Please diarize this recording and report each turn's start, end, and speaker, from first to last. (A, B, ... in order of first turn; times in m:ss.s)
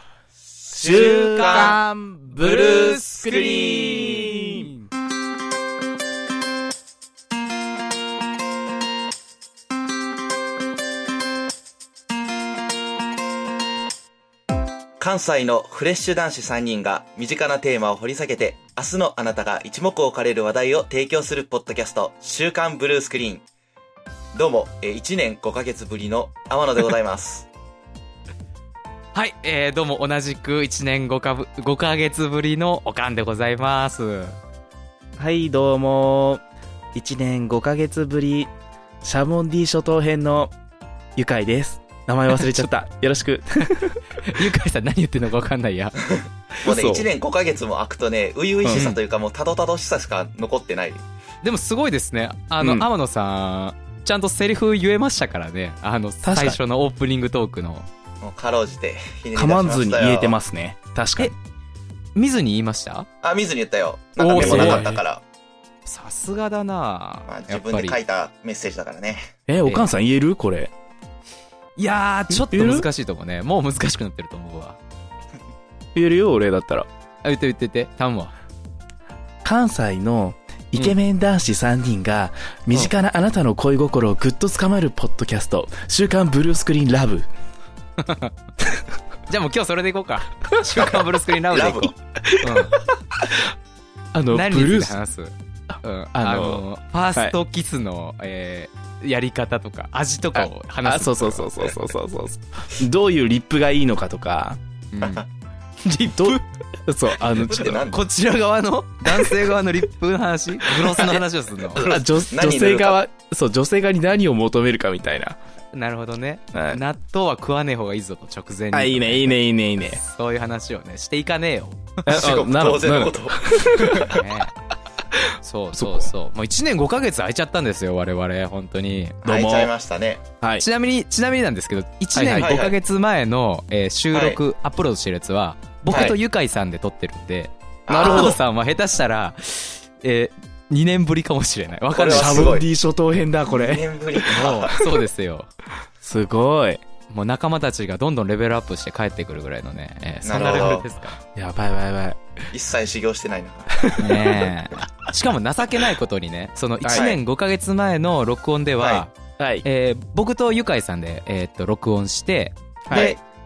0:00.7-0:01.8 A
0:00.7-0:04.7 B
0:02.4-0:03.9 A
0:15.0-0:23.4 A
0:24.3-0:27.5 A
0:29.1-0:34.4 C
0:35.2-0:36.4 B
0:36.9-0:38.5 B
0:39.0-0:40.5 B
0:41.2-0:44.4 B
0:42.3-0:42.7 C
0:43.6-0:46.0 C
0:46.1-0:51.0 A
0:46.6-0:47.1 B
0:48.6-0:48.9 B
0:48.7-0:49.0 C
0:51.4-0:57.9 C
0:52.6-0:52.9 B
0:56.2-0:56.6 B
0:58.2-1:00.3 A
0:59.4-1:01.3 B
1:02.2-1:03.1 C
1:03.2-1:05.2 A
1:04.2-1:04.9 C
1:04.3-1:05.0 B
1:05.9-1:08.0 C
1:07.3-1:09.3 A
1:09.5-1:10.7 B
1:09.6-1:09.9 C
1:11.8-1:14.8 C
1:12.3-1:12.9 B
1:16.0-1:16.9 B
1:17.2-1:18.3 C
1:19.4-1:27.3 B
1:28.0-1:28.3 C
1:29.3-1:32.8 C
1:31.5-1:31.9 A
1:32.2-1:32.7 B
1:33.2-1:33.5 B
1:34.1-1:35.0 B
1:34.3-1:41.9 C
1:35.7-1:36.6 B
1:40.4-1:44.6 B
1:44.9-1:45.2 C
1:45.8-1:46.4 C
1:46.1-1:48.0 B
1:47.3-1:48.0 A
1:47.3-1:51.9 C
1:49.1-1:49.5 B
1:50.7-1:51.2 B
1:51.7-1:55.4 B
1:51.8-1:53.0 A
1:55.7-2:02.2 C
1:56.5-1:56.8 B
1:58.7-2:00.0 B
2:02.1-2:04.2 B
2:02.1-2:04.2 A
2:04.1-2:04.5 C
2:05.1-2:06.1 B
2:05.4-2:09.2 C
2:09.2-2:10.2 A
2:09.2-2:09.7 B
2:10.4-2:10.7 B
2:10.6-2:22.6 C
2:12.2-2:12.6 B
2:12.3-2:12.8 A
2:14.1-2:14.4 A
2:15.9-2:16.2 A
2:15.9-2:16.2 B
2:17.9-2:18.4 A
2:17.9-2:18.4 B
2:21.9-2:22.7 A
2:22.1-2:25.0 B
2:23.5-2:24.7 A
2:24.3-2:25.5 C
2:26.0-2:26.8 B
2:27.1-2:31.2 C
2:30.2-2:30.9 A
2:31.4-2:32.2 B
2:32.5-2:34.0 A
2:33.8-2:34.5 B
2:34.0-2:43.2 C
2:36.8-2:37.1 B
2:36.9-2:37.2 A
2:39.4-2:39.6 B
2:42.9-2:43.2 B
2:42.9-2:43.2 A